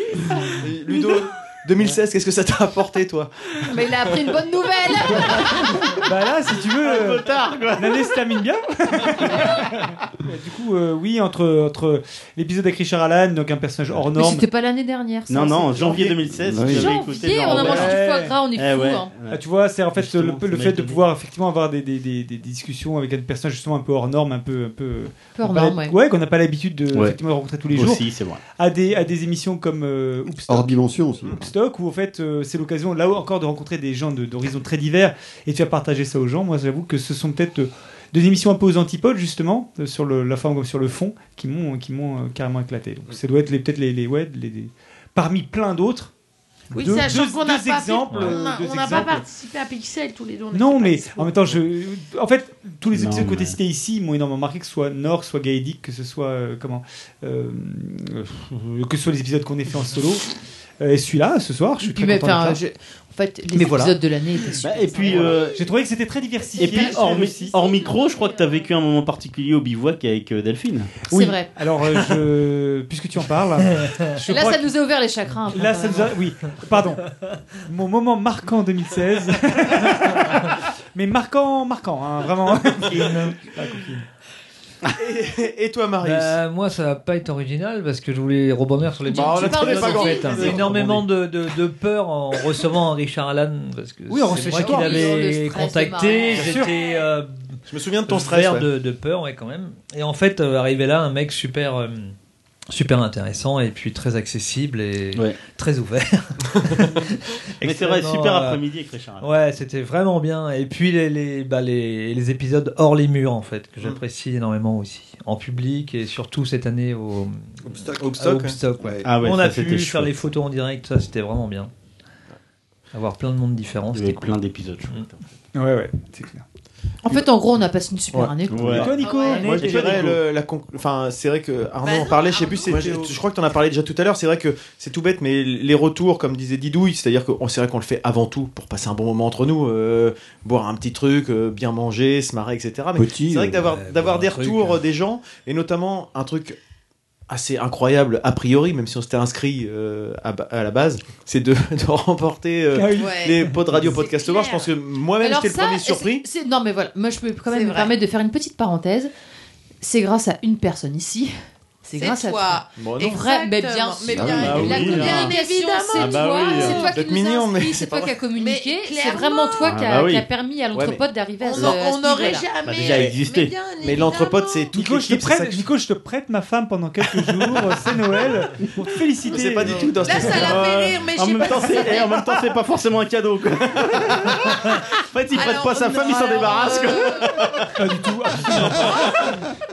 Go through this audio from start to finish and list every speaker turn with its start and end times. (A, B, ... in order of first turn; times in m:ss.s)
0:00.6-0:04.2 A
0:03.7-0:06.1 B
0:06.0-0:14.5 C
0:06.8-0:08.1 D
0:14.1-0:16.2 B
0:15.3-0:19.4 D
0:16.3-0:17.0 E
0:16.7-0:19.1 B
0:17.4-0:18.4 C
0:19.3-0:30.8 C
0:20.0-0:21.0 D
0:25.4-0:26.0 B
0:27.7-0:28.4 D
0:30.5-0:31.5 E
0:31.4-0:46.1 C
0:46.7-0:49.2 C
0:46.7-0:51.5 F
0:50.5-1:00.3 C
0:52.9-0:53.6 D
1:00.8-1:02.6 C
1:01.8-1:05.3 B
1:03.5-1:04.0 C
1:04.6-1:05.6 D
1:05.0-1:05.7 F
1:05.0-1:07.6 C
1:06.4-1:08.7 F
1:06.6-1:11.0 D
1:11.1-1:14.8 C
1:11.1-1:11.5 B
1:14.2-1:16.2 B
1:15.5-1:24.0 C
1:22.9-1:23.4 G
1:24.9-1:26.4 A
1:26.0-1:42.2 G
1:29.1-1:30.7 B
1:29.1-1:31.0 A
1:34.1-1:35.3 C
1:34.3-1:36.7 B
1:36.4-1:36.6 A
1:36.4-1:36.7 C
1:37.7-1:38.7 A
1:42.7-1:48.6 G
1:47.6-1:49.3 D
1:49.2-2:01.7 G
1:57.7-1:58.6 A
1:58.8-1:59.1 E
1:59.0-2:00.2 D
2:02.9-2:04.3 G
2:03.9-2:05.2 D
2:05.6-2:06.4 C
2:07.0-2:09.4 B
2:08.1-2:26.6 A
2:08.5-2:09.0 D
2:08.7-2:10.2 C
2:09.0-2:09.5 F
2:09.6-2:10.1 D
2:11.8-2:13.1 F
2:23.0-2:23.7 E
2:23.6-2:24.8 G
2:27.3-2:36.2 A
2:32.7-2:33.5 C
2:33.0-2:34.7 F
2:35.2-2:39.1 B
2:37.5-2:37.9 F
2:39.8-2:52.5 B
2:42.0-2:46.8 F
2:42.8-2:43.1 A
2:44.1-2:44.6 E
2:44.2-2:45.3 D
2:45.9-2:46.9 D
2:46.6-2:48.1 A
2:48.4-2:49.7 F
2:49.6-2:50.3 D
2:50.7-2:51.0 A
2:51.4-2:54.7 F
2:52.6-2:53.5 D
2:52.8-2:53.1 A
2:53.8-2:55.7 A
2:54.7-3:00.4 C
2:57.0-2:57.7 A
2:59.2-3:00.6 A
3:00.0-3:02.6 F
3:00.2-3:07.4 D
3:05.3-3:07.4 F
3:07.8-3:09.3 C